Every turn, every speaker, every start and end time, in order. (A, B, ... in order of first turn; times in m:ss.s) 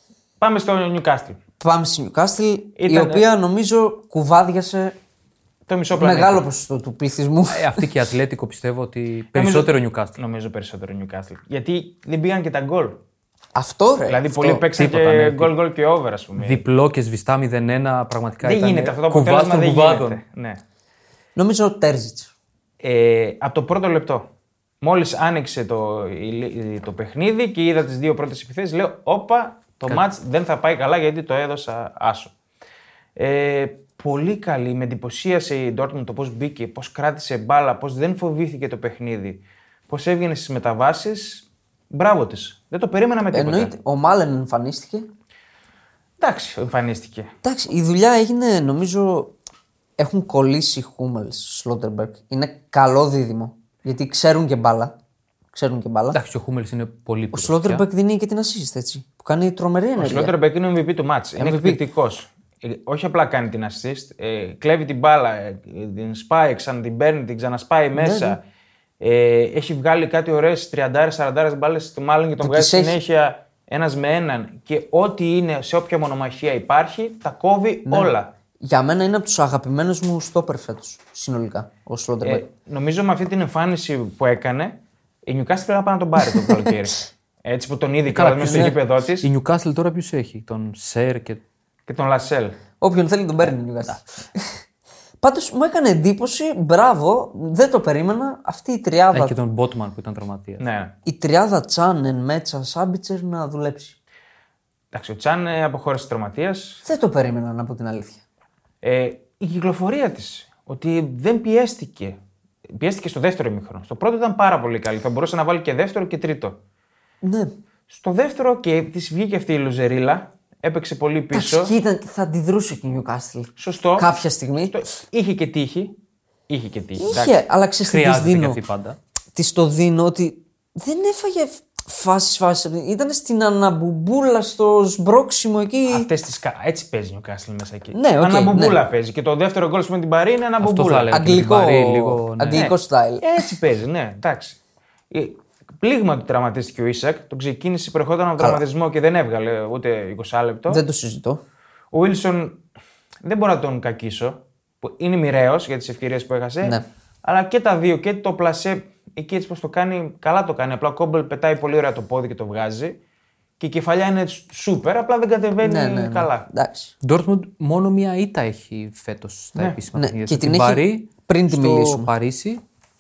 0:00.4-0:01.4 A
0:01.6-0:05.0 B
0:02.8-0:03.3 A
0:05.7-0:06.4 A
0:06.0-0:07.9 B
0:07.5-0:10.2 C
0:09.4-0:13.0 A
0:13.6-0:14.6 B
0:14.1-0:16.6 A
0:14.7-0:15.5 C
0:16.4-0:20.2 C
0:18.4-0:20.6 A
0:21.4-0:22.3 B
0:22.8-0:24.3 A
0:24.8-0:32.3 A
0:33.2-0:43.7 A
0:43.3-0:45.1 B
0:46.2-0:47.3 A
0:47.4-0:49.3 B
0:50.0-0:54.9 B
0:55.5-0:56.2 B
0:56.1-0:57.9 C
0:57.3-1:00.3 B
1:00.0-1:08.4 A
1:01.4-1:01.8 B
1:08.0-1:08.4 B
1:09.0-1:18.3 A
1:12.4-1:13.0 B
1:17.9-1:22.4 B
1:22.2-1:24.8 A
1:25.3-1:29.3 A
1:26.4-1:26.7 B
1:28.1-1:31.4 C
1:28.4-1:28.7 B
1:31.9-1:32.6 A
1:32.8-1:34.6 B
1:35.2-1:39.4 B
1:39.1-1:40.6 C
1:40.6-1:40.9 A
1:41.0-1:44.0 B
1:44.9-1:46.8 A
1:46.8-1:48.2 B
1:48.8-1:52.2 A
1:52.7-1:56.6 A
1:57.2-1:57.5 B
1:57.9-2:01.7 A
2:01.3-2:04.8 B
2:03.6-2:04.1 A
2:04.7-2:06.0 A
2:06.5-2:07.4 A
2:07.0-2:08.6 B
2:07.9-2:09.0 C
2:09.4-2:16.1 B
2:15.9-2:21.1 A
2:17.9-2:18.8 B
2:20.6-2:22.6 C
2:21.1-2:23.4 B
2:22.5-2:24.6 A
2:25.1-2:30.8 A
2:30.7-2:31.4 B
2:31.9-2:32.6 A
2:33.2-2:43.0 A
2:43.6-2:46.5 A
2:45.6-2:46.9 B
2:47.0-2:52.6 C
2:49.9-2:52.1 B